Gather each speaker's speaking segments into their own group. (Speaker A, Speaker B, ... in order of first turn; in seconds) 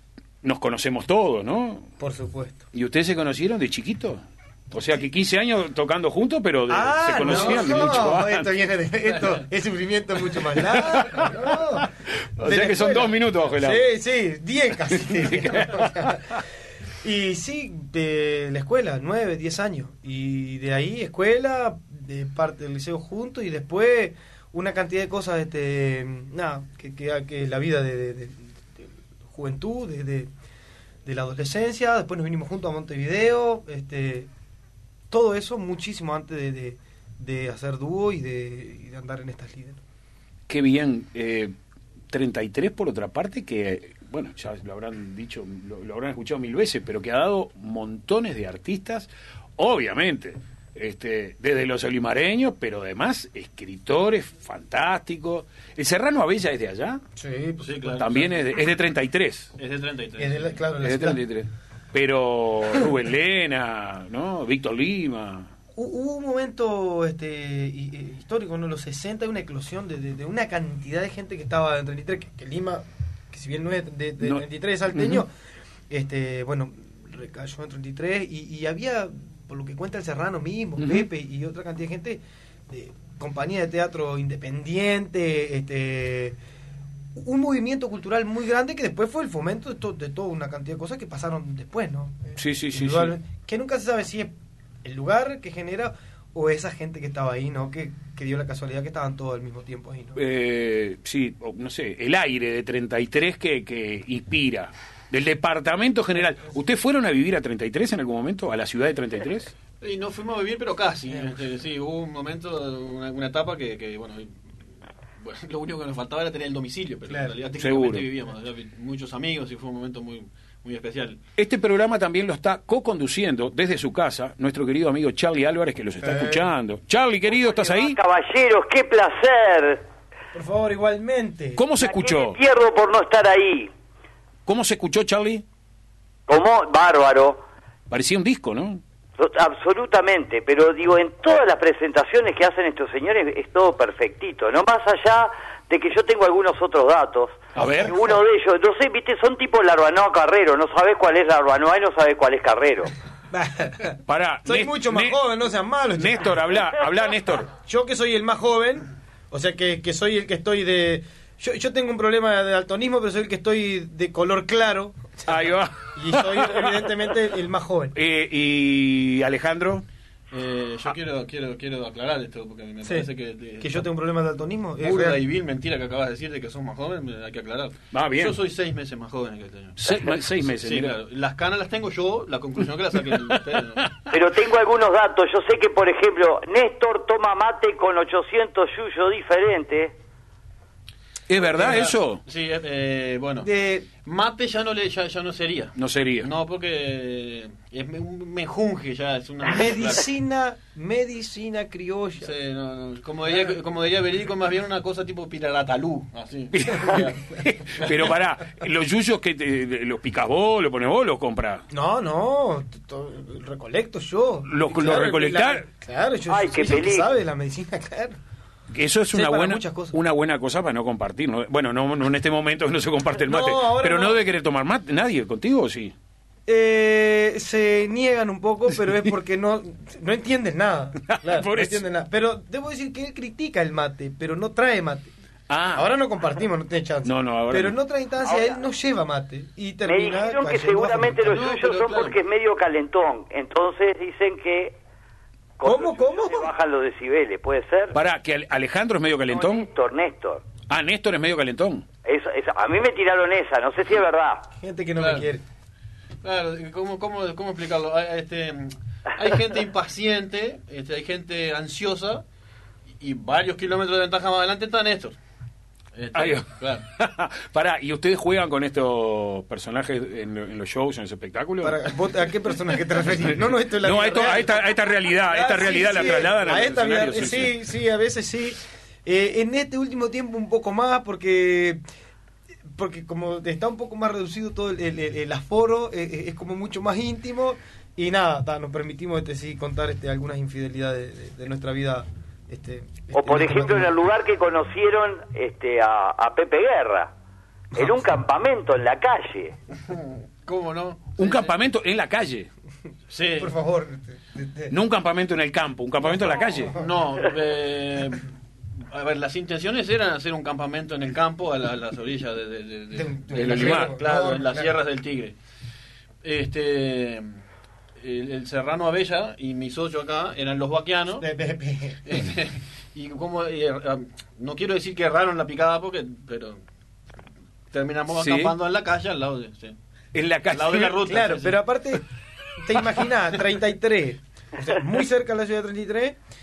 Speaker A: 0.4-1.9, 2.7-8.4, 10.5-13.8, 14.9-16.4, 40.5-41.5, 42.1-57.0, 57.9-59.5, 60.8-65.5, 74.9-75.2, 80.8-81.1, 92.4-93.1, 100.1-109.5, 117.6-118.1, 121.4-128.0, 131.6-132.4, 134.4-135.4, 137.9-138.8, 147.5-147.9, 154.1-155.2, 155.9-157.5, 165.3-166.9, 167.9-169.8, 177.9-178.3, 179.8-180.9, 191.3-192.2, 195.8-196.3, 206.5-211.6, 214.5-215.6, 218.7-225.9, 231.1-231.8, 235.5-235.9, 237.0-237.8, 247.9-249.7, 250.7-251.8, 266.1-271.9, 273.7-277.5, 301.2-302.5, 304.7-306.8, 313.3-313.9, 328.1-328.5, 330.1-331.0
Speaker B: 2.0-2.7, 6.7-11.9, 12.4-16.4, 17.0-30.3, 31.0-34.3, 35.1-39.8, 57.1-58.0, 60.2-61.2, 65.7-75.3, 75.9-86.4, 87.1-100.2, 117.1-117.3, 126.0-126.5, 130.3-131.6, 147.6-148.2, 153.3-156.6, 157.5-167.9, 173.6-175.2, 191.6-191.9, 193.4-193.9, 199.4-202.3, 211.7-218.2, 219.1-220.0, 223.2-224.2, 226.5-235.1, 235.7-241.5, 245.6-246.5, 254.6-255.4, 271.6-281.8, 282.7-293.9, 297.7-298.0, 303.4-304.7, 306.0-306.9, 312.9-314.7, 321.2-322.1, 331.0-332.0, 332.6-336.2
Speaker C: 7.2-7.7, 57.6-58.4, 59.6-60.6, 109.8-114.5, 115.2-121.2, 170.3-173.9, 174.8-183.9, 191.4-193.5, 194.0-200.1, 202.2-208.2, 241.2-242.2, 255.0-255.3, 256.2-262.2, 263.0-265.1, 265.9-266.8, 299.9-301.5, 303.1-303.5, 306.8-315.3, 316.2-317.4, 318.0-321.3, 322.0-326.6, 327.7-329.8, 330.5-331.6
Speaker D: 127.3-129.8, 131.8-133.7, 136.3-137.4, 139.2-152.9, 184.1-189.9, 216.3-217.1, 238.2-238.6, 239.8-244.7, 245.6-248.0, 249.3-250.4, 252.0-254.5, 293.1-297.1, 297.7-299.5